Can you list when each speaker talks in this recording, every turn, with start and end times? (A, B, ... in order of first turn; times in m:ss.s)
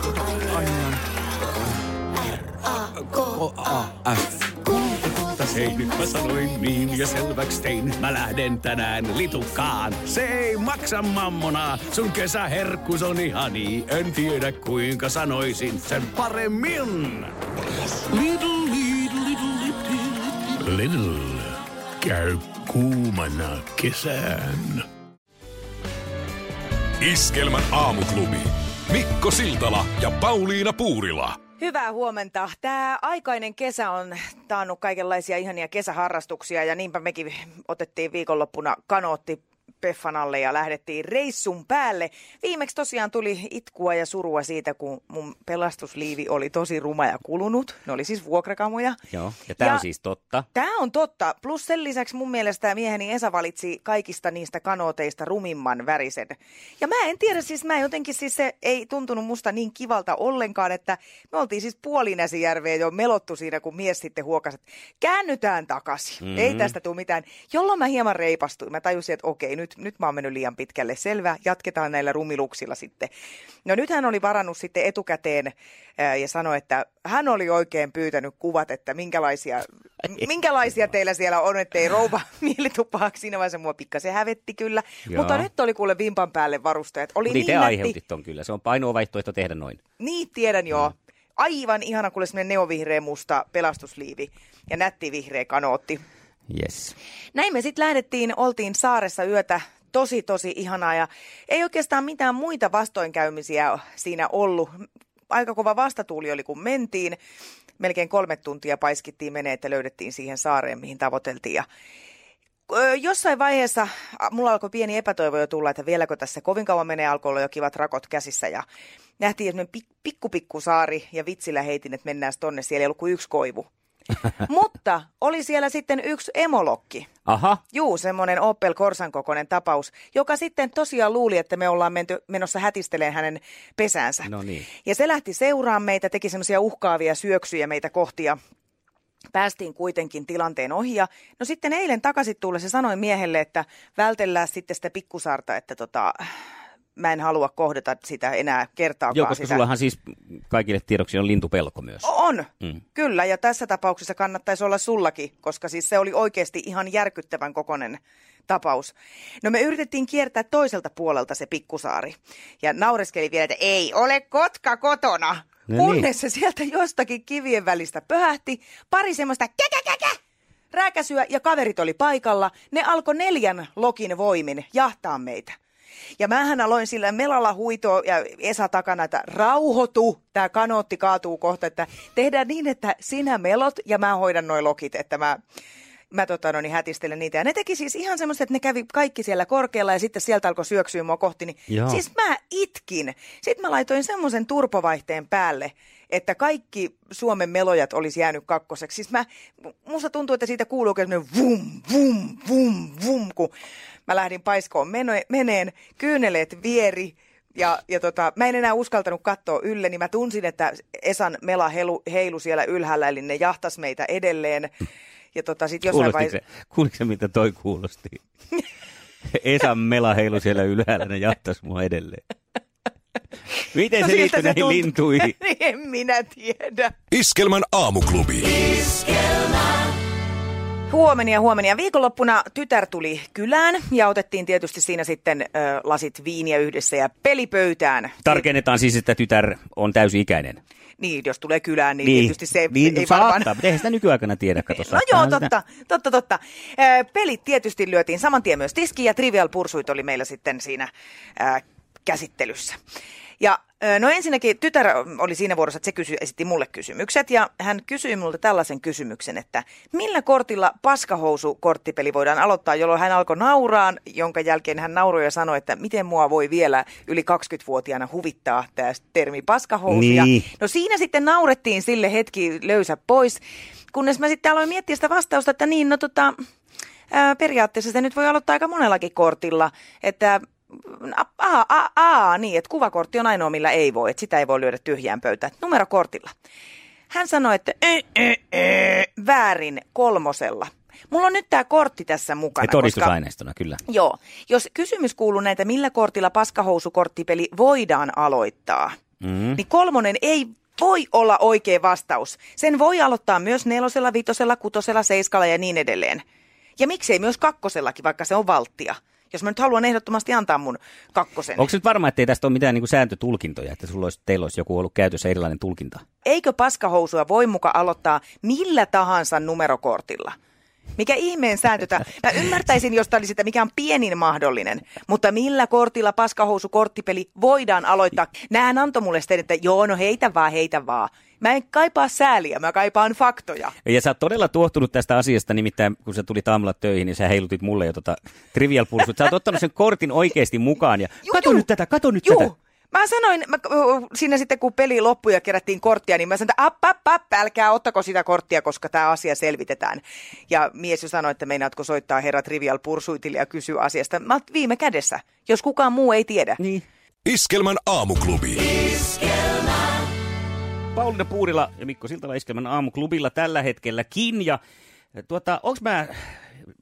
0:00.4-0:01.0 A
0:03.1-0:17.3 A
0:18.1-0:19.9 A
0:20.5-0:24.8 A
0:27.0-0:31.4 B
0:31.6-0:49.0 C
0:49.1-0:50.5 D
0:50.5-1:13.1 C
1:06.2-1:06.7 D
1:13.6-1:28.0 C
1:25.1-1:25.4 D
1:27.2-1:29.8 D
1:30.0-1:36.0 C
1:36.5-1:37.0 D
1:37.3-1:44.8 C
1:45.3-1:47.2 C
1:47.8-1:51.6 C
1:52.7-1:58.6 C
1:59.2-2:03.6 C
2:04.4-2:07.1 C
2:07.2-2:07.6 D
2:07.7-2:14.3 C
2:14.2-2:14.7 D
2:14.8-2:18.4 C
2:19.3-2:26.3 C
2:27.0-2:29.6 C
2:29.1-2:32.1 D
2:32.0-2:50.2 C
2:45.7-2:46.1 D
2:50.7-2:55.6 C
2:56.2-3:05.4 C
3:06.1-3:19.3 C
3:11.7-3:12.0 D
3:19.8-3:23.5 C
3:24.1-3:34.7 C
3:35.3-3:36.3 C
3:35.8-3:38.2 D
3:39.3-3:42.2 D
3:43.7-3:45.3 D
3:44.0-3:46.9 C
3:47.1-3:48.8 B
3:50.9-3:58.4 C
3:58.2-4:00.6 D
4:01.0-4:03.6 C
4:02.0-4:05.5 D
4:04.6-4:12.8 C
4:13.4-4:33.4 C
4:29.9-4:30.5 D
4:33.9-4:36.4 C
4:37.1-4:46.3 C
4:47.1-4:53.1 C
4:52.6-4:53.8 D
4:53.9-4:59.0 C
4:59.2-4:59.6 D
4:59.5-5:06.2 C
5:06.8-5:11.7 C
5:11.6-5:16.0 D
5:16.2-5:20.4 C
5:21.0-5:33.7 C
5:33.8-5:42.5 D
5:41.3-5:41.6 C
5:42.2-5:56.6 C
5:56.6-5:56.8 D
5:57.2-5:58.7 B
6:00.9-6:04.6 D
6:05.2-6:06.5 D